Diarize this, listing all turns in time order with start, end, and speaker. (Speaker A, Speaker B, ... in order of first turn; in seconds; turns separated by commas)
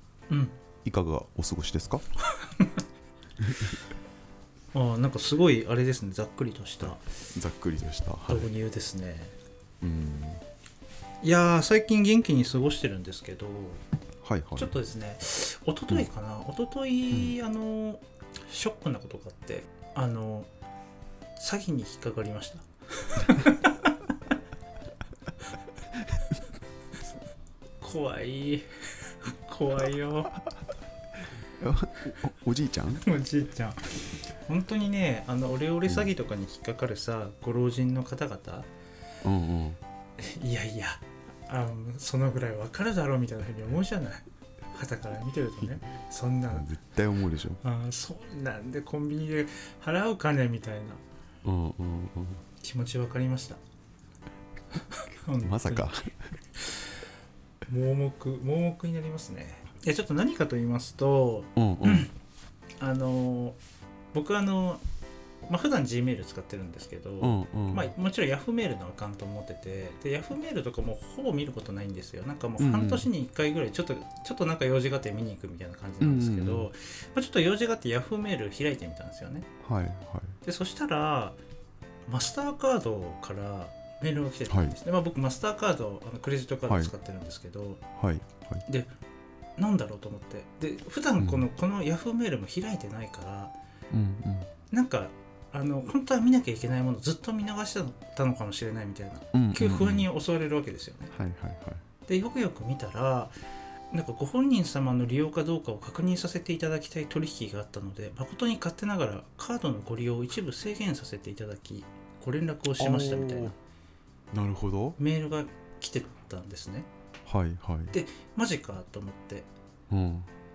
Speaker A: 0.3-0.6, Speaker B: 0.8-2.0, Speaker A: 2.3-2.8, Speaker B: 3.4-3.8, Speaker A: 4.7-7.0, Speaker B: 6.8-8.5, Speaker A: 8.3-9.3, Speaker B: 9.8-10.4, Speaker A: 11.2-13.8, Speaker B: 14.2-14.7, Speaker A: 14.6-20.5, Speaker A: 21.4-24.1, Speaker B: 25.9-26.3, Speaker A: 27.8-30.3, Speaker B: 31.6-33.0, Speaker A: 33.0-38.7, Speaker B: 39.2-39.8, Speaker A: 40.2-46.7, Speaker B: 46.5-47.6, Speaker A: 47.6-51.0, Speaker B: 51.4-52.4, Speaker A: 52.6-53.6, Speaker A: 54.7-55.9, Speaker B: 55.4-56.3, Speaker A: 56.6-57.0, Speaker A: 57.6-62.1, Speaker B: 61.5-62.1, Speaker A: 62.8-63.6, Speaker A: 64.1-64.8, Speaker A: 65.4-79.5, Speaker B: 67.2-67.9, Speaker B: 72.6-73.1, Speaker B: 76.0-76.7, Speaker B: 79.6-80.4, Speaker A: 80.4-81.4, Speaker A: 82.1-87.8, Speaker B: 84.5-84.8, Speaker B: 86.7-86.9, Speaker B: 88.0-88.6, Speaker A: 88.7-88.9, Speaker A: 89.6-93.5, Speaker B: 91.2-91.4, Speaker B: 93.9-94.5, Speaker A: 94.7-101.1, Speaker B: 99.3-100.1, Speaker B: 101.1-101.8, Speaker A: 102.1-103.3, Speaker A: 103.9-113.6, Speaker B: 112.8-113.5, Speaker B: 114.3-115.0, Speaker A: 115.0-116.9, Speaker B: 117.2-117.9, Speaker A: 117.9-119.5, Speaker B: 119.9-120.3